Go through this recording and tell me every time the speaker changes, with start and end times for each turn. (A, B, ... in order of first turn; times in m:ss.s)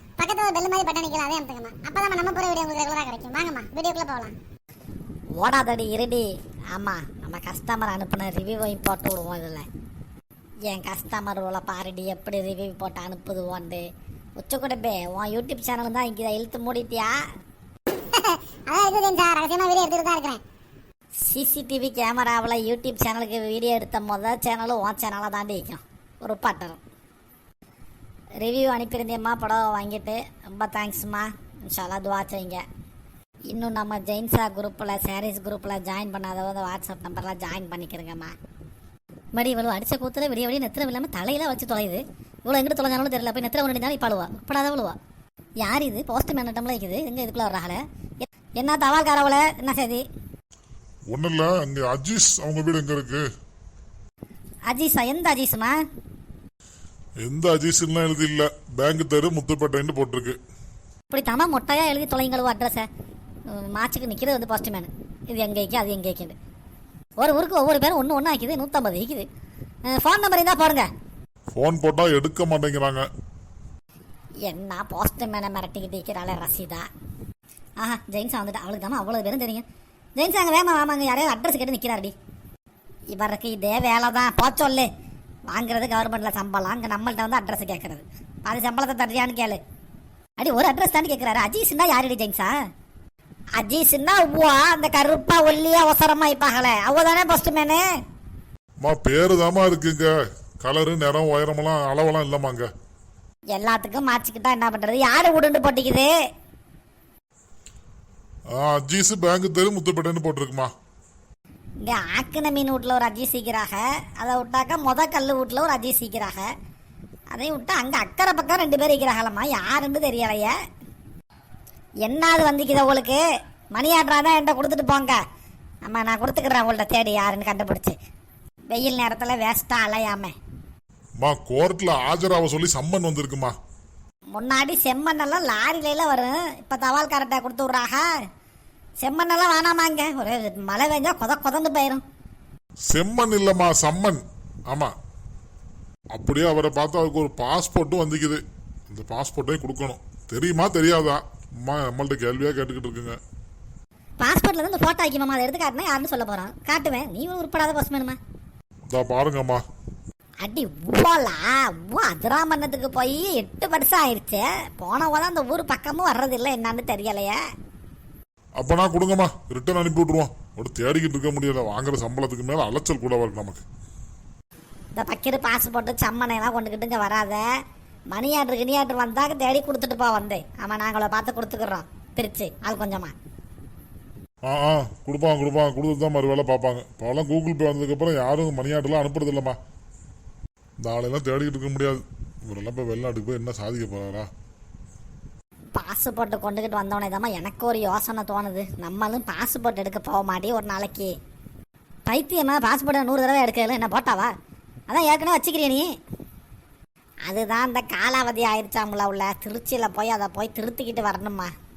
0:00.2-0:04.3 A
0:05.4-0:09.7 B
0:10.7-0:13.9 B
0:14.4-0:17.2 B
0:18.1-0:20.4 A
0:21.3-0:26.8 B
0:28.4-0:32.6 B
0:33.5-0:38.3 B
0:39.3-0:45.0 B
0:45.6-0:47.8 B
0:48.6-0:50.0 B
0:51.1-0:53.2 C
0:54.7-0:55.8 B
0:57.2-1:00.4 C
1:01.1-1:02.9 B
1:03.5-1:06.4 B
1:07.2-1:09.3 B
1:09.9-1:10.9 B
1:11.5-1:13.1 C
1:14.5-1:16.9 B
1:17.8-1:19.6 B
1:20.2-1:22.1 B
1:23.1-1:24.9 B
1:25.5-1:29.6 B
1:30.4-1:32.5 B
1:33.6-1:37.8 B
1:38.8-1:42.7 C
1:43.5-1:46.1 B
1:48.5-1:50.7 C
1:51.8-1:56.5 B
1:57.3-2:00.5 B
2:02.0-2:03.2 B
2:03.7-2:05.2 B
2:05.8-2:08.0 B
2:08.7-2:10.3 B
2:11.2-2:13.5 C
2:14.4-2:18.1 B
2:19.0-2:22.0 B
2:22.9-2:24.9 C
2:26.2-2:33.2 C
2:34.2-2:38.2 B
2:38.9-2:39.6 C
2:40.4-2:47.4 B
2:48.6-2:53.6 C
2:55.0-2:57.4 B
2:58.1-3:03.1 B
3:04.4-3:09.6 C
3:10.8-3:14.3 C
3:15.8-3:21.1 B
3:22.1-3:24.3 B
3:24.9-3:25.9 B
3:27.3-3:31.5 B